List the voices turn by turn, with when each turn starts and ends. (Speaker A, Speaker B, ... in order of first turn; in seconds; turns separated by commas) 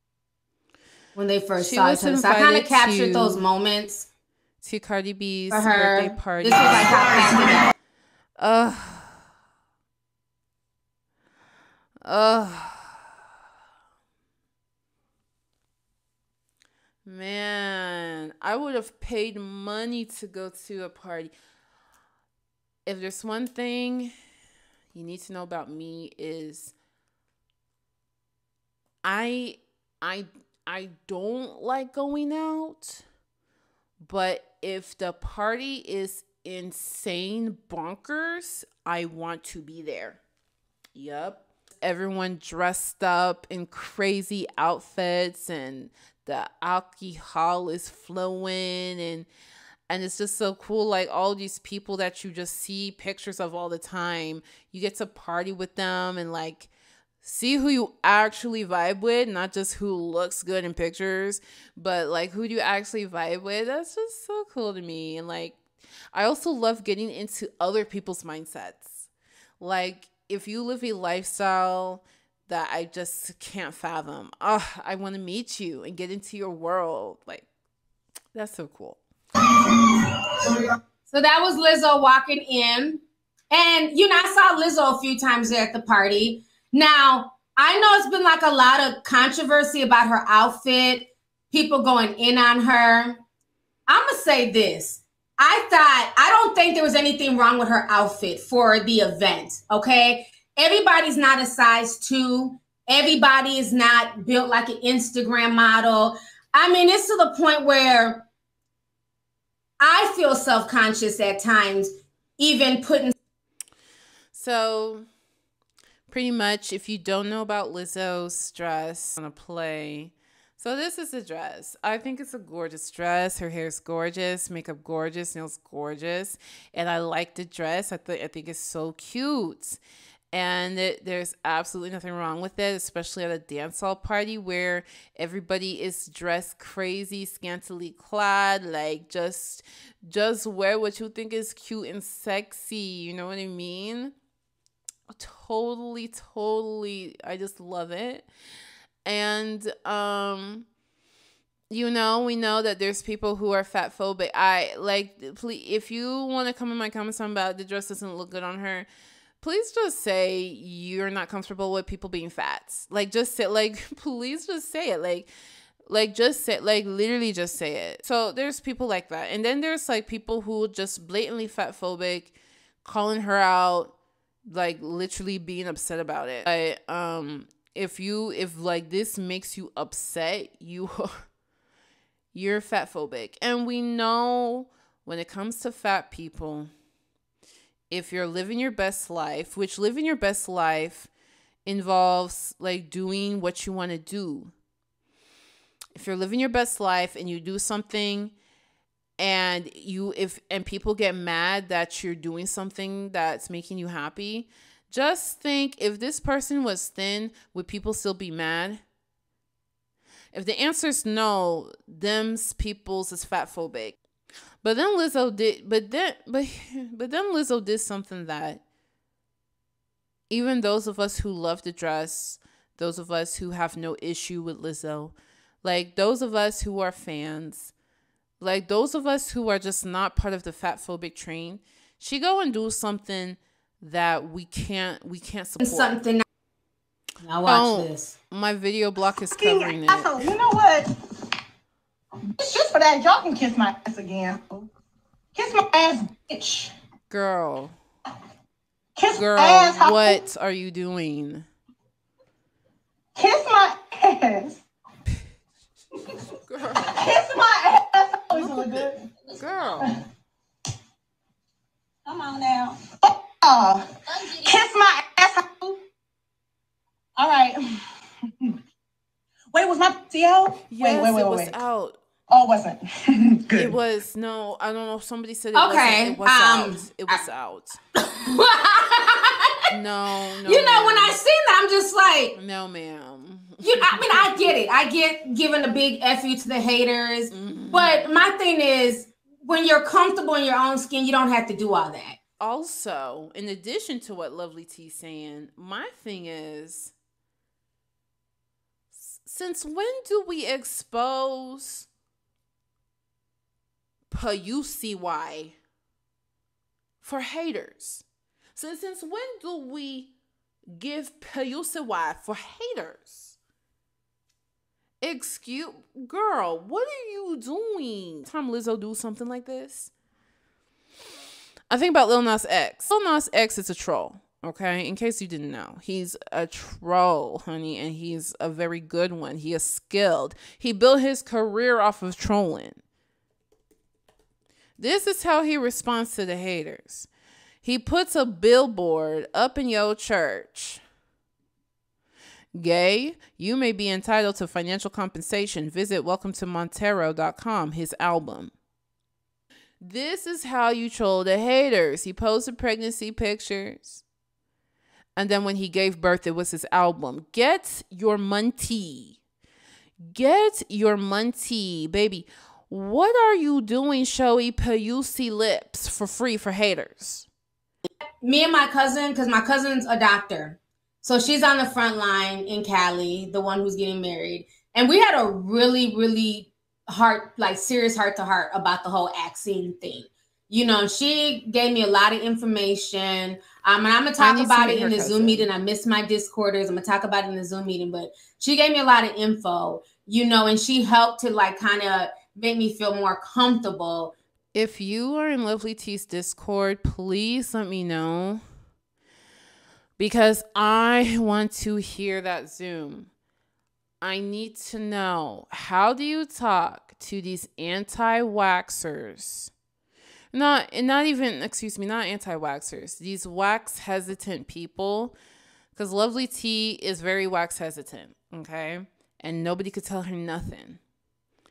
Speaker A: 1.1-4.1, Speaker B: 1.6-3.4, Speaker B: 4.6-7.4, Speaker A: 5.5-7.7, Speaker B: 8.4-9.2, Speaker B: 12.0-13.0, Speaker B: 17.0-21.3, Speaker B: 22.9-24.1, Speaker B: 24.9-26.7, Speaker B: 29.0-33.0, Speaker B: 34.0-40.2, Speaker B: 40.9-49.3, Speaker B: 49.9-56.7, Speaker B: 57.2-65.6, Speaker B: 66.1-69.1, Speaker B: 69.6-77.5, Speaker B: 78.3-79.0, Speaker A: 80.6-93.2, Speaker A: 93.9-108.2, Speaker A: 109.8-113.1, Speaker B: 114.3-115.0, Speaker B: 116.1-129.8, Speaker B: 130.3-144.1, Speaker B: 145.1-148.3, Speaker B: 149.1-150.7, Speaker B: 151.7-158.9, Speaker B: 159.4-165.3, Speaker B: 165.9-173.9, Speaker B: 174.5-181.2, Speaker B: 182.3-186.7, Speaker B: 187.9-191.1, Speaker B: 191.6-194.5, Speaker B: 195.9-198.3, Speaker B: 199.2-208.8, Speaker B: 210.3-213.9, Speaker B: 214.6-218.6, Speaker B: 220.3-227.7, Speaker B: 228.4-236.0, Speaker A: 235.6-236.2, Speaker A: 237.2-238.1, Speaker B: 237.4-240.3, Speaker C: 239.3-240.9, Speaker C: 242.4-244.7, Speaker C: 245.3-246.7, Speaker B: 247.1-247.7, Speaker C: 248.9-250.2, Speaker B: 249.1-251.4, Speaker C: 253.2-254.6, Speaker B: 256.5-257.1, Speaker C: 256.9-259.1, Speaker B: 259.4-259.9, Speaker C: 262.1-265.8, Speaker C: 267.1-267.8, Speaker C: 269.5-271.6, Speaker B: 270.7-272.0, Speaker C: 272.3-273.7, Speaker B: 273.5-277.8, Speaker A: 275.5-277.2, Speaker A: 278.0-279.6, Speaker B: 279.7-281.2, Speaker A: 280.4-282.3, Speaker B: 282.3-284.5, Speaker A: 283.6-292.2, Speaker B: 287.3-288.2, Speaker B: 292.4-296.9, Speaker B: 298.9-301.9, Speaker B: 304.1-305.5, Speaker B: 307.0-308.0, Speaker B: 308.6-310.1, Speaker B: 310.7-313.4, Speaker B: 315.0-319.9, Speaker B: 321.7-332.8, Speaker B: 334.8-337.1, Speaker B: 337.6-340.8, Speaker B: 342.6-348.5, Speaker B: 349.8-354.0, Speaker B: 355.1-359.2, Speaker B: 360.1-367.3, Speaker A: 368.2-394.1, Speaker B: 384.2-385.5, Speaker B: 394.5-398.4, Speaker B: 400.0-403.1, Speaker B: 404.0-409.5, Speaker B: 410.3-415.1, Speaker B: 415.7-420.8